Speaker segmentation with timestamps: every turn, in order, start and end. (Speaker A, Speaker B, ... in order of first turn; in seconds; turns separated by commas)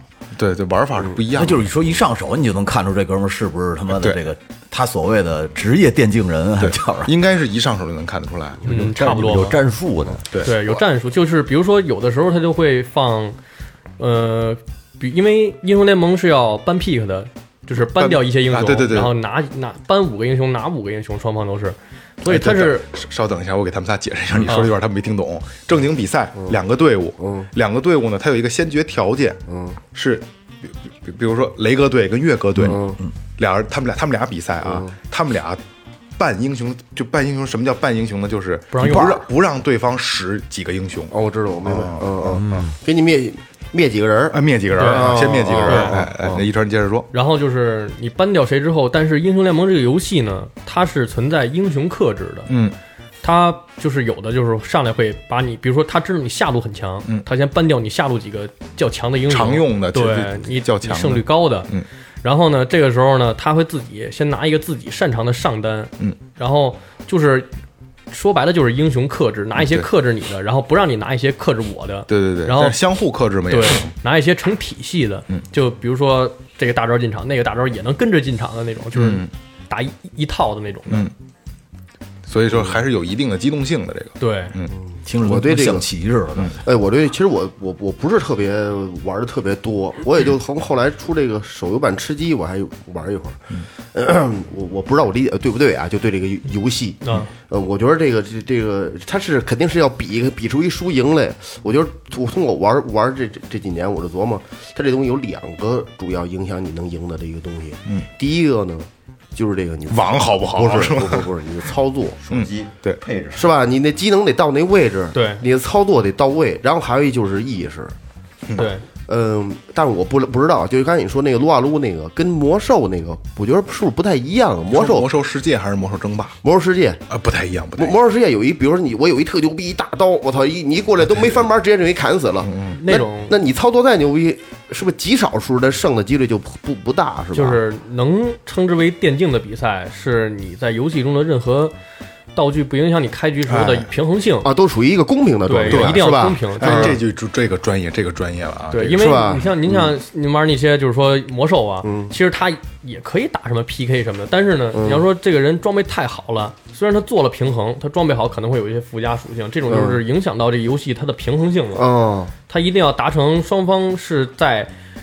Speaker A: 0.3-1.7, Speaker B: 1.3-7.1, Speaker A: 3.9-4.2, Speaker A: 6.6-8.9, Speaker C: 8.6-10.5, Speaker D: 8.7-9.6, Speaker A: 10.3-10.8, Speaker D: 10.4-13.4, Speaker D: 14.0-22.9, Speaker A: 17.8-19.1, Speaker A: 22.2-29.4, Speaker D: 24.5-24.7, Speaker E: 27.2-27.5, Speaker E: 29.5-29.8, Speaker A: 29.9-30.3, Speaker A: 31.0-35.6, Speaker B: 32.6-33.1, Speaker E: 32.6-33.0, Speaker E: 34.6-35.0, Speaker A: 36.2-41.1, Speaker D: 38.7-39.2, Speaker E: 41.1-46.4, Speaker A: 41.6-42.7, Speaker C: 42.4-42.7, Speaker A: 44.3-47.1, Speaker D: 44.7-46.0, Speaker D: 47.1-52.5, Speaker A: 52.5-52.8, Speaker D: 53.2-61.7, Speaker A: 59.3-61.9, Speaker D: 62.2-67.5, Speaker D: 68.1-72.8, Speaker A: 69.6-69.9, Speaker A: 72.1-73.9, Speaker D: 73.5-81.1, Speaker A: 78.9-79.3, Speaker A: 80.9-81.1, Speaker A: 82.3-84.7, Speaker D: 84.2-84.6, Speaker B: 85.1-86.6, Speaker E: 85.2-85.9, Speaker E: 86.6-112.3, Speaker D: 97.0-97.3, Speaker A: 109.9-111.3, Speaker C: 112.2-113.5, Speaker A: 112.3-113.0, Speaker E: 113.3-118.0, Speaker D: 115.1-115.4, Speaker A: 118.5-118.7, Speaker D: 118.6-118.8, Speaker E: 119.1-125.1, Speaker A: 124.7-126.4, Speaker E: 126.4-127.0, Speaker A: 127.1-128.0, Speaker E: 127.8-137.6, Speaker A: 132.4-132.8, Speaker D: 132.7-133.4, Speaker D: 137.3-141.8, Speaker D: 142.3-144.5, Speaker A: 143.5-143.9, Speaker E: 144.4-147.0, Speaker D: 145.5-147.0, Speaker A: 145.7-149.4, Speaker D: 148.7-161.8, Speaker E: 148.9-149.9, Speaker E: 151.8-152.1, Speaker E: 154.7-155.1, Speaker E: 159.7-160.0, Speaker E: 161.8-162.3, Speaker D: 162.5-164.7